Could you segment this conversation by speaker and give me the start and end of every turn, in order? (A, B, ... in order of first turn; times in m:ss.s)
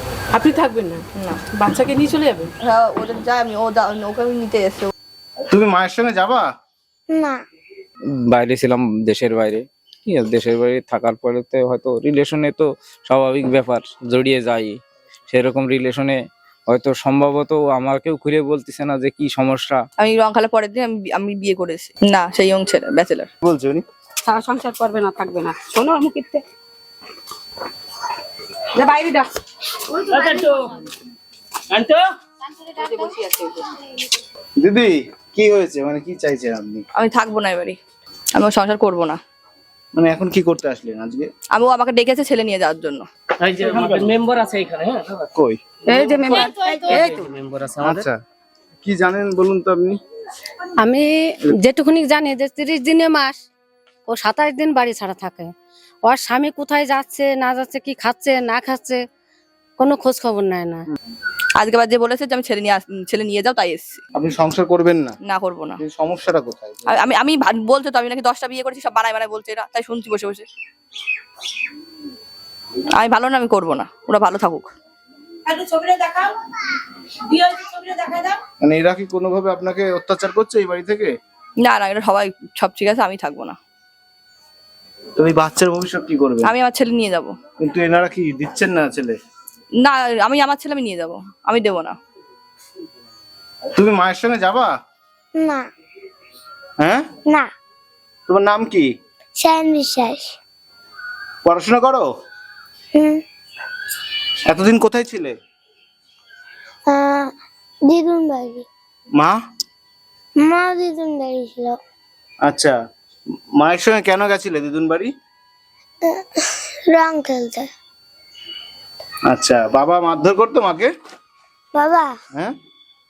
0:00.3-0:02.5 A
0:01.1-0:01.4 B
0:02.6-0:04.9 B
0:05.5-0:06.5 C
0:07.1-0:07.4 D
0:08.3-0:14.8 E
0:15.3-0:16.1 E
0:16.7-0:19.8 E
0:20.0-0:23.3 B
0:23.4-0:23.8 C
0:24.2-0:26.4 F
0:28.8-0:29.3 F
0:30.1-0:30.5 F
0:32.8-0:33.5 B
0:34.6-0:36.8 C
0:37.0-0:37.8 B
0:38.3-0:39.2 B
0:40.0-0:41.3 C
0:41.5-0:43.1 B
0:43.6-0:44.1 C
0:43.6-0:45.0 G
0:45.3-0:45.6 C
0:45.9-0:47.2 F
0:47.2-0:48.0 G
0:47.8-0:48.1 C
0:48.8-0:50.0 C
0:50.8-0:51.1 H
0:51.6-0:53.4 H
0:54.1-0:55.5 H
0:56.1-0:59.0 H
0:59.8-1:00.8 H
1:01.6-1:04.0 B
1:04.2-1:05.2 C
1:05.2-1:05.8 B
1:05.8-1:07.0 C
1:06.9-1:10.5 B
1:12.9-1:14.7 B
1:18.6-1:21.1 C
1:21.6-1:23.6 B
1:25.2-1:26.5 C
1:26.4-1:27.4 B
1:27.6-1:29.2 C
1:29.8-1:32.0 B
1:33.8-1:34.7 C
1:35.4-1:35.6 D
1:38.3-1:38.9 C
1:39.4-1:40.4 D
1:41.4-1:42.1 C
1:42.9-1:43.2 D
1:44.5-1:45.3 C
1:46.9-1:47.3 D
1:47.8-1:48.7 D
1:50.4-1:51.8 D
1:52.4-1:52.8 C
1:53.6-1:55.1 C
1:56.9-1:57.7 D
1:59.3-2:00.9 C
2:01.7-2:02.2 D